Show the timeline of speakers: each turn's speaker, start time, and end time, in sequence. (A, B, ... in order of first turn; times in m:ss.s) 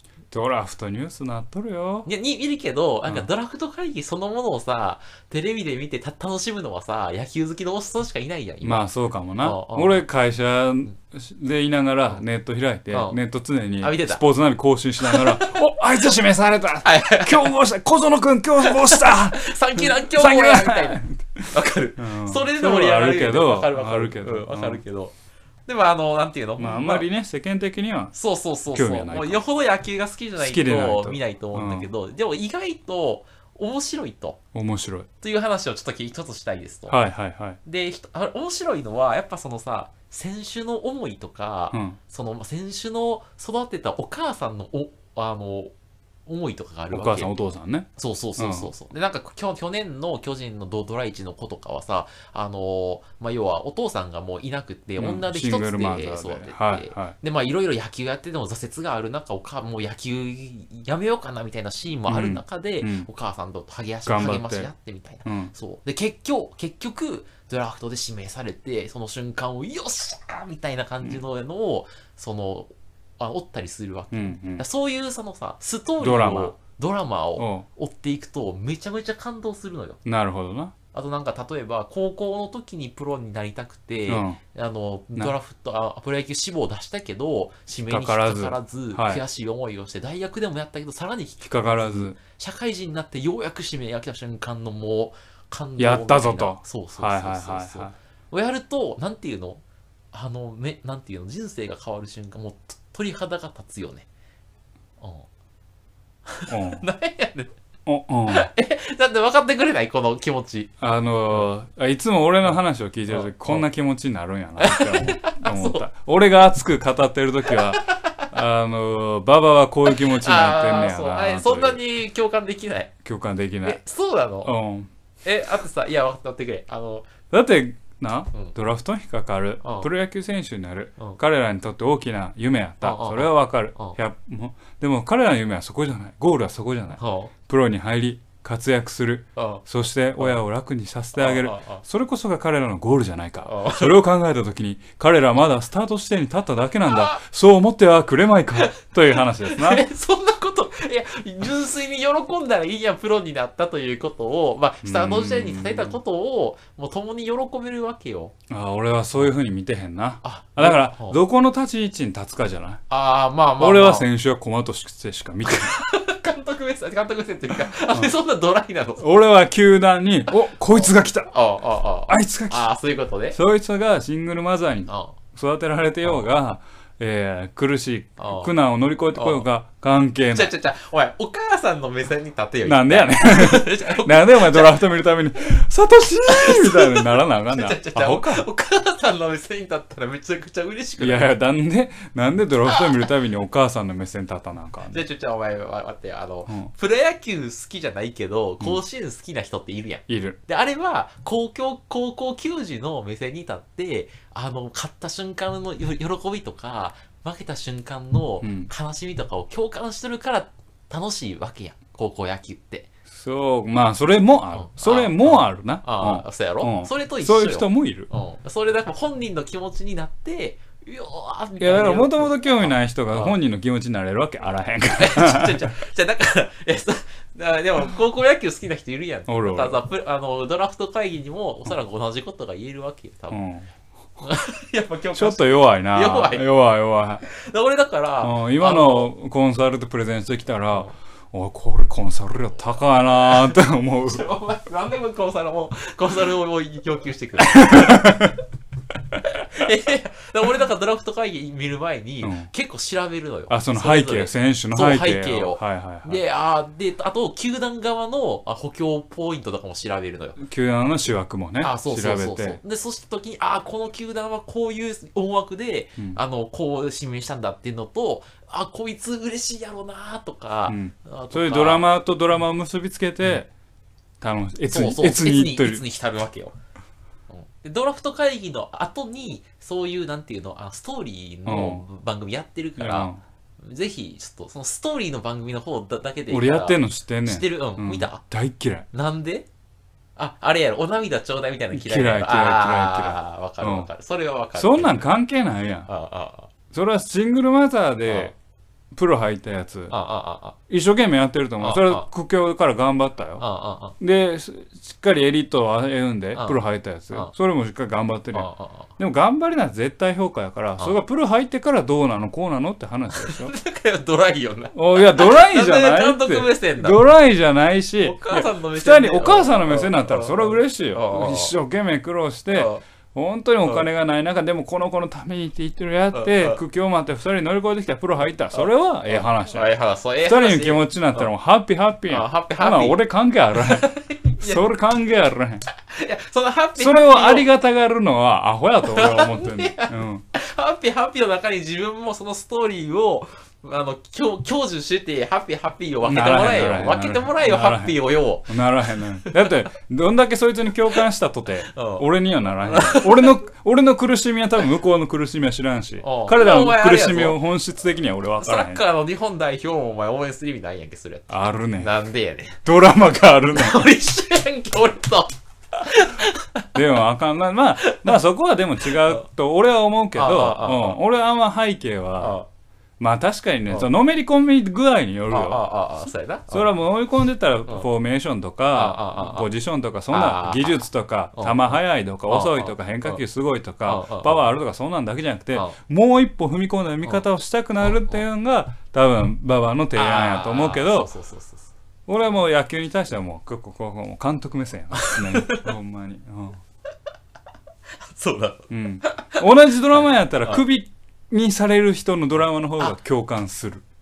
0:00.3-0:02.1 A
0:02.0-0:08.9 B
0:08.6-0:24.8 A
0:09.4-0:10.0 B
0:12.9-0:13.2 B
0:13.8-0:14.2 B
0:15.0-0:15.6 B
0:16.8-0:17.5 B
0:18.6-0:25.1 B
0:25.7-0:27.1 B
0:26.6-0:28.1 A
0:28.1-0:34.4 B
0:28.7-0:29.4 A
0:30.4-0:31.9 A
0:34.5-0:35.1 A
0:35.2-0:37.0 B
0:36.9-0:37.6 A
0:37.6-0:45.7 B
0:41.7-0:42.0 A
0:46.2-1:20.0 B
0:46.9-0:48.7 A
0:55.0-0:57.1 A
1:02.1-1:03.1 A
1:04.0-1:04.7 A
1:05.2-1:05.5 A
1:14.1-1:14.6 A
1:16.0-1:16.5 A
1:17.4-1:17.6 A
1:20.0-1:20.7 A
1:20.9-1:44.0 B
1:24.1-1:24.4 A
1:27.9-1:29.2 A
1:31.4-1:32.2 A
1:35.8-1:37.9 A
1:45.0-1:45.3 B
1:46.2-1:47.5 B
1:46.5-1:46.8 A
1:47.8-1:48.5 A
1:48.3-1:50.8 B
1:50.8-2:01.8 A
1:53.1-1:53.6 B
1:54.6-1:55.8 B
1:57.8-1:58.2 B
1:59.9-2:02.9 B
2:03.0-2:03.8 A
2:03.6-2:04.5 B
2:04.4-2:04.9 A
2:05.2-2:07.1 B
2:07.3-2:29.8 A
2:09.6-2:09.9 B
2:12.8-2:14.0 B
2:17.0-2:17.3 B
2:19.4-2:19.6 B
2:21.1-2:21.8 B
2:23.4-2:23.9 B
2:26.9-2:27.2 B
2:28.6-2:38.3 B
2:34.8-2:36.0 A
2:38.5-2:42.8 A
2:40.2-2:41.2 B
2:42.9-2:44.0 B
2:43.6-2:45.8 A
2:45.4-2:49.2 B
2:47.5-2:48.1 A
2:49.0-2:51.3 A
2:50.7-2:53.4 B
2:52.1-2:52.6 A
2:53.3-3:00.5 A
2:54.9-2:55.2 B
2:58.2-2:58.5 B
2:59.1-2:59.4 B
3:00.3-3:04.8 B
3:02.6-3:08.4 A
3:06.3-3:11.3 B
3:11.0-3:15.0 A
3:14.9-3:32.9 B
3:20.1-3:20.4 A
3:28.4-3:28.7 A
3:33.1-3:38.1 A
3:34.5-3:43.4 B
3:41.6-3:45.7 A
3:44.9-3:53.4 B
3:49.3-3:49.8 A
3:53.3-3:53.7 A
3:54.2-3:56.5 B
3:55.1-3:57.2 A
3:57.3-3:59.1 B
3:58.2-4:04.2 A
4:03.1-4:08.3 B
4:07.5-4:08.3 A
4:09.2-4:20.4 B
4:12.2-4:12.5 A
4:13.5-4:16.2 A
4:20.4-4:22.6 A
4:21.6-4:31.9 B
4:30.7-4:33.5 A
4:34.2-4:35.8 A
4:34.7-4:36.6 B
4:37.3-4:48.2 B
4:41.4-4:41.8 A
4:42.8-4:43.2 A
4:46.3-4:48.8 A
4:48.9-4:49.5 B
4:50.2-4:55.1 B
4:51.7-4:53.9 A
4:54.5-4:55.9 A
4:55.9-4:56.5 B
4:56.7-4:58.3 A
4:58.1-4:58.3 B
4:58.9-4:59.9 A
4:59.9-5:00.6 B
5:00.7-5:03.4 A
5:01.6-5:02.1 B
5:03.4-5:04.0 B
5:04.0-5:13.5 A
5:06.3-5:07.3 B
5:08.3-5:08.9 B
5:13.1-5:17.0 B
5:14.7-5:35.6 A
5:18.0-5:21.5 B
5:22.5-5:22.8 B
5:26.1-5:26.6 B
5:28.5-5:31.3 B
5:32.1-5:33.0 B
5:33.5-5:34.7 B
5:35.8-5:37.5 B
5:36.8-5:40.2 A
5:38.9-5:49.7 B
5:46.0-5:58.8 A
5:51.7-5:52.0 B
5:52.6-5:53.4 B
5:56.0-5:57.4 B
5:58.4-6:02.6 B
6:01.3-6:01.9 A
6:02.6-6:03.9 A
6:03.5-6:06.6 B
6:06.7-6:12.4 A
6:07.8-6:08.2 B
6:08.8-6:09.2 B
6:10.1-6:11.0 B
6:12.2-6:12.5 B
6:13.0-6:15.6 A
6:15.3-6:16.7 B
6:16.5-6:31.1 A
6:18.7-6:19.5 B
6:20.1-6:23.2 B
6:23.8-6:24.4 B
6:27.8-6:28.2 B
6:29.9-6:31.7 B
6:32.1-6:36.6 A
6:34.9-6:35.7 B
6:38.1-6:40.6 B
6:38.7-6:43.8 A